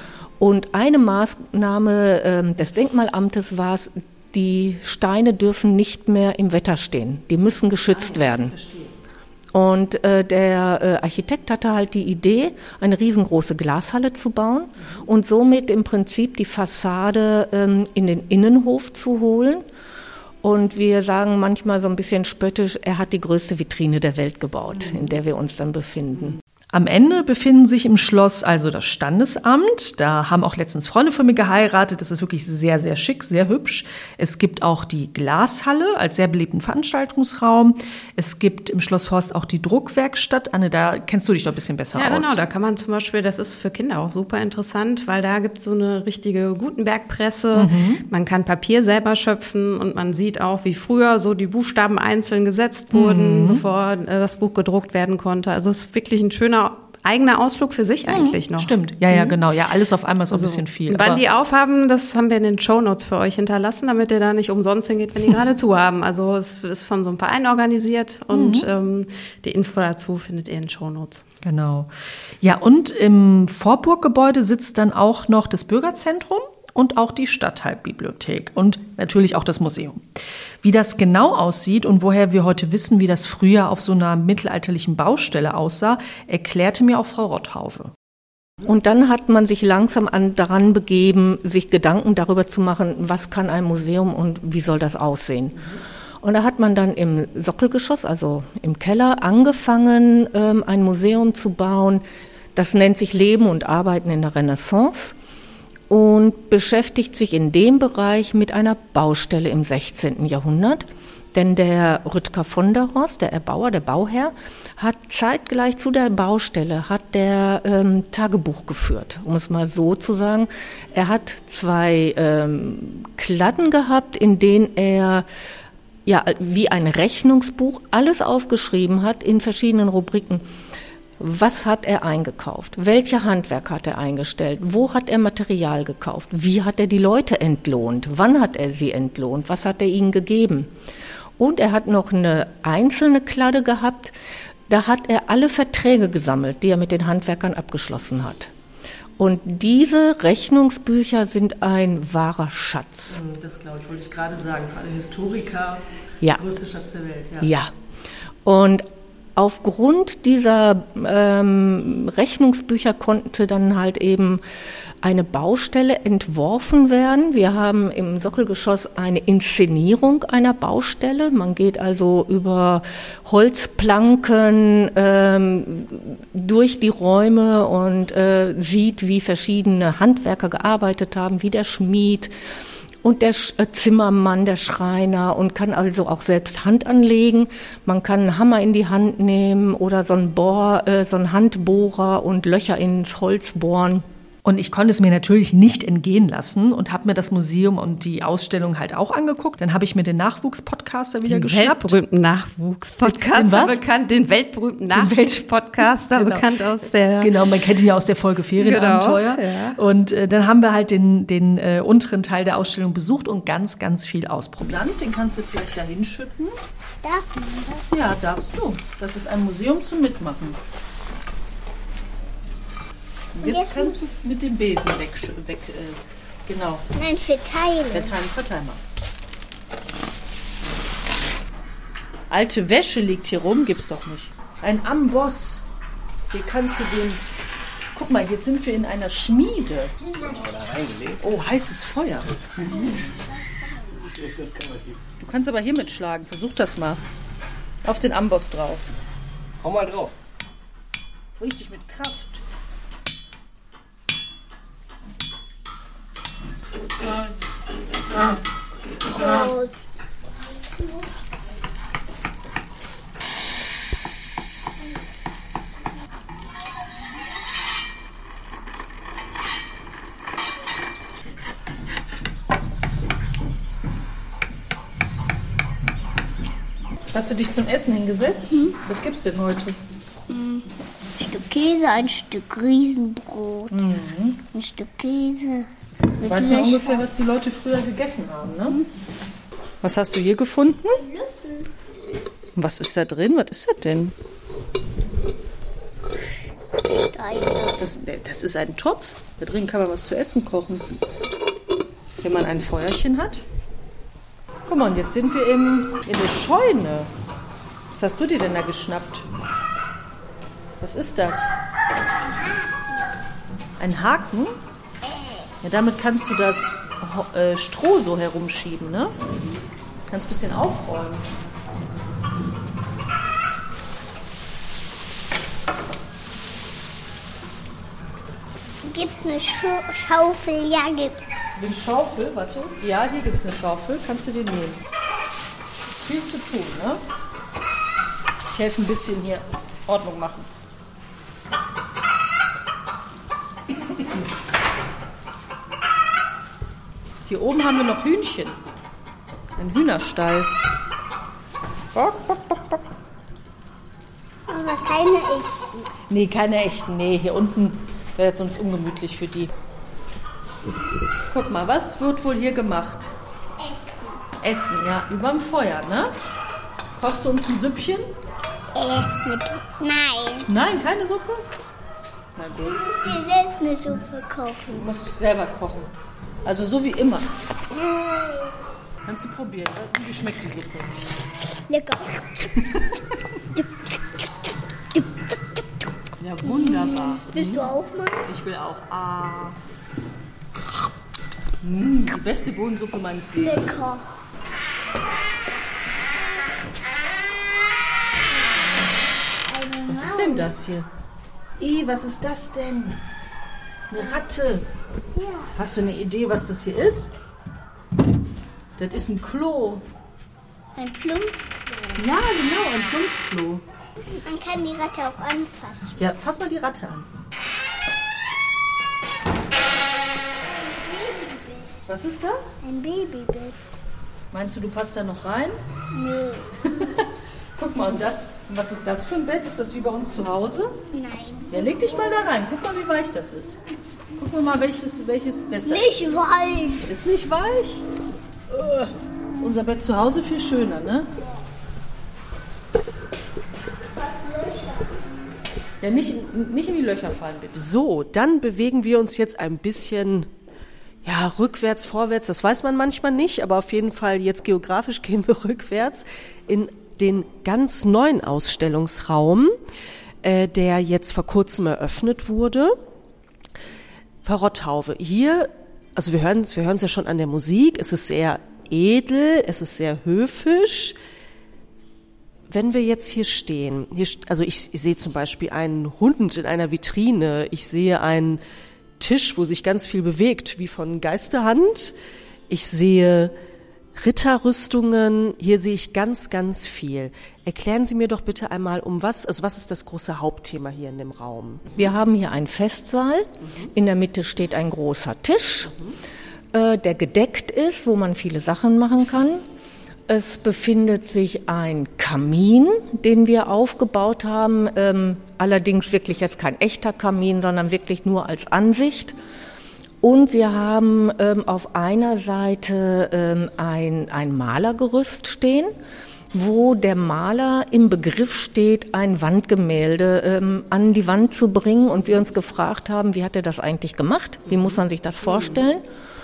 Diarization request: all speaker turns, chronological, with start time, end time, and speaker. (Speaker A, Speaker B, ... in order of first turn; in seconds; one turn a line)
Speaker A: 0.4-8.6
Speaker B: 8.1-8.8
Speaker A: 9.5-19.6
Speaker A: 20.4-26.4
Speaker C: 26.7-42.4
Speaker D: 41.9-59.4
Speaker C: 47.5-48.0
Speaker C: 52.9-53.6
Speaker C: 58.1-61.2
Speaker D: 60.3-71.3
Speaker C: 68.3-68.7
Speaker C: 71.4-71.9
Speaker C: 72.4-80.1
Speaker C: 80.6-87.9
Speaker A: 88.6-102.0
Speaker A: 102.5-105.2
Speaker A: 105.9-125.2
Speaker A: 126.0-130.4
Speaker A: 131.2-140.7
Speaker A: 141.4-144.1
Speaker A: 144.7-148.5
Speaker A: 149.2-153.2
Speaker B: 153.1-155.8
Speaker B: 156.4-157.5
Speaker A: 157.4-157.7
Speaker A: 158.4-164.4
Speaker A: 165.0-182.3
Speaker A: 183.0-194.0
Speaker C: 194.4-202.0
Speaker D: 201.2-207.3
Speaker C: 203.0-203.8
Speaker C: 204.9-206.4
Speaker C: 207.2-216.6
Speaker D: 208.6-209.8
Speaker E: 217.0-217.8
Speaker C: 217.9-220.6
Speaker C: 223.3-226.8
Speaker E: 223.4-224.1
Speaker E: 226.9-228.2
Speaker C: 227.9-228.8
Speaker C: 232.3-235.6
Speaker C: 236.3-237.2
Speaker C: 237.9-239.9
Speaker C: 241.2-242.3
Speaker E: 242.9-244.1
Speaker C: 245.2-247.0
Speaker C: 247.8-248.9
Speaker C: 251.4-252.4
Speaker E: 259.1-259.7
Speaker C: 277.1-279.8
Speaker E: 278.5-278.8
Speaker E: 280.3-280.6
Speaker E: 281.2-283.8
Speaker C: 283.7-284.4
Speaker E: 284.5-285.7
Speaker E: 286.2-287.1
Speaker C: 286.2-288.8
Speaker C: 289.8-291.0
Speaker E: 291.0-291.6
Speaker C: 292.6-294.1
Speaker E: 297.0-297.8
Speaker C: 297.8-300.9
Speaker C: 302.2-303.4
Speaker C: 304.7-307.1
Speaker C: 307.9-309.2
Speaker C: 310.8-311.6
Speaker C: 313.8-314.6
Speaker C: 315.6-319.1
Speaker C: 320.1-321.2
Speaker E: 328.8-331.3
Speaker C: 331.6-334.8
Speaker C: 335.9-337.0
Speaker C: 338.5-340.5
Speaker C: 347.2-348.6
Speaker C: 349.6-350.5
Speaker C: 351.9-352.8
Speaker E: 354.5-355.9
Speaker C: 356.1-359.5
Speaker C: 361.3-363.1
Speaker E: 363.6-364.1
Speaker C: 364.4-366.1
Speaker C: 367.0-368.1
Speaker E: 368.7-370.5
Speaker C: 370.5-371.5
Speaker C: 372.4-372.9
Speaker E: 372.7-374.9
Speaker C: 374.7-375.9
Speaker C: 376.4-377.3
Speaker E: 377.7-378.5
Speaker C: 379.0-381.1
Speaker E: 381.6-382.5
Speaker C: 386.2-387.6
Speaker E: 386.4-388.3
Speaker C: 388.2-389.6
Speaker C: 391.6-393.8
Speaker E: 393.3-394.0
Speaker E: 399.5-400.5
Speaker C: 399.9-400.9
Speaker C: 401.6-403.0
Speaker C: 403.9-404.6
Speaker E: 405.1-405.5
Speaker C: 405.6-407.1
Speaker C: 408.8-409.8
Speaker E: 410.8-412.1
Speaker C: 412.0-413.6
Speaker E: 414.2-416.0
Speaker C: 416.0-417.1
Speaker E: 420.5-421.8
Speaker C: 421.8-422.6
Speaker E: 422.6-423.7
Speaker C: 424.3-425.6
Speaker E: 425.9-426.5
Speaker C: 426.8-430.8
Speaker E: 430.9-432.2
Speaker C: 431.5-433.6
Speaker C: 434.2-436.0
Speaker E: 435.6-436.9
Speaker C: 436.8-437.8
Speaker C: 438.5-441.1
Speaker E: 444.0-444.9
Speaker C: 445.8-447.6
Speaker B: 447.5-450.3
Speaker B: 451.0-459.6
Speaker B: 460.2-462.8
Speaker B: 464.2-470.9
Speaker B: 472.5-478.4
Speaker B: 479.0-481.9
Speaker B: 482.5-483.3
Speaker B: 483.9-491.7
Speaker A: 491.7-495.7
Speaker A: 496.5-499.4
Speaker A: 500.1-509.1
Speaker A: 510.0-515.7
Speaker A: 516.3-525.8